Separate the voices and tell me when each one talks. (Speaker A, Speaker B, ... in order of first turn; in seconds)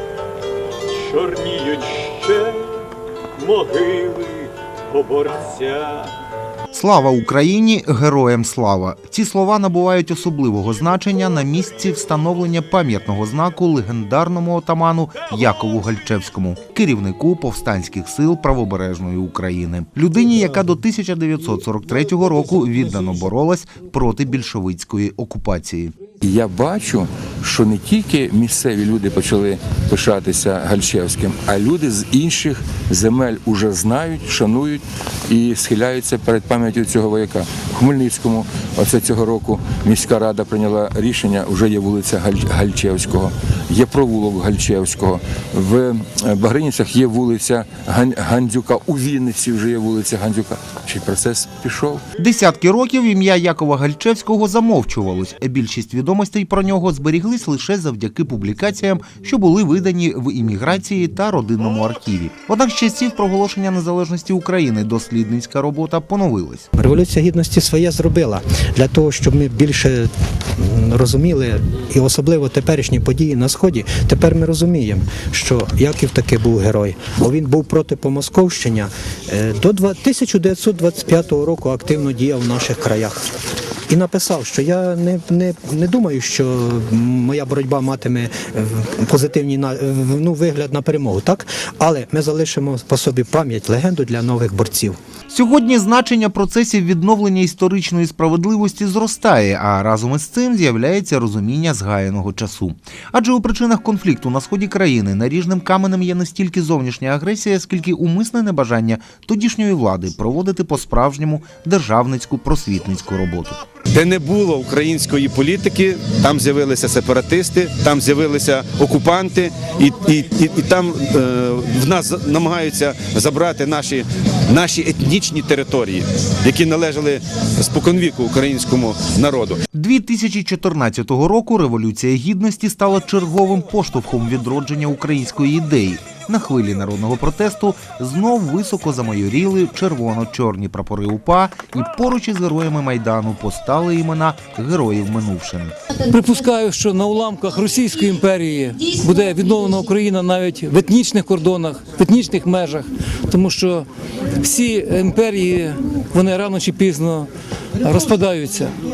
Speaker A: 1.1-2.6, 3.4-6.1
Speaker B: 6.7-25.9, 52.2-66.7, 95.3-113.6, 129.7-145.7
Speaker C: 26.2-52.0
Speaker D: 66.8-83.2, 83.9-95.0
Speaker E: 113.9-129.6
Speaker F: 146.0-153.9, 154.4-157.3, 157.8-158.7